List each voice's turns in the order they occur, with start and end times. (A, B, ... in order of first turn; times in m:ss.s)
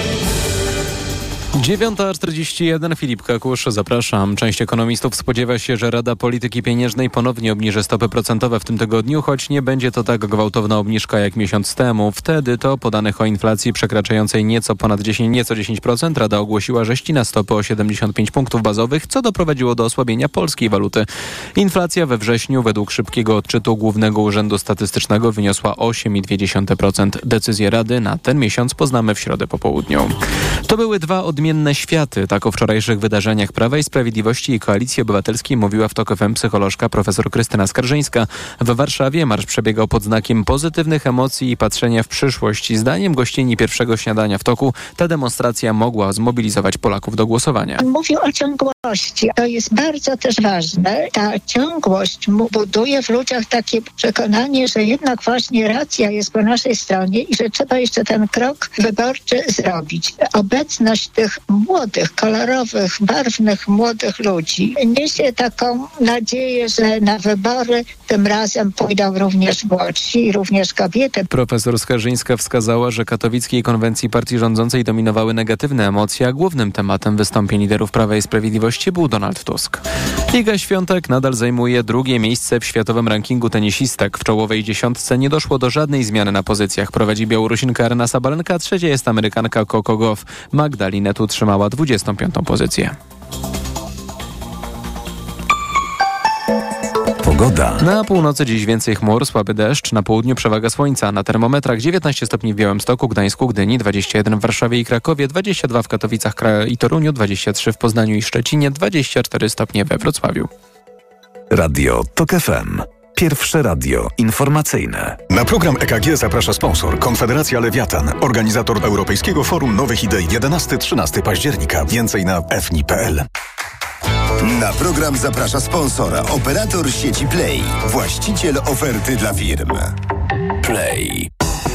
0:01.6-0:47.8 A
0:47.8-1:11.2 B
1:11.3-1:33.0 A
1:37.2-1:37.8 C
1:37.8-1:50.5 A
1:51.5-1:55.2 C
1:55.3-2:03.2 D
2:04.4-2:09.9 E
2:10.6-2:11.3 C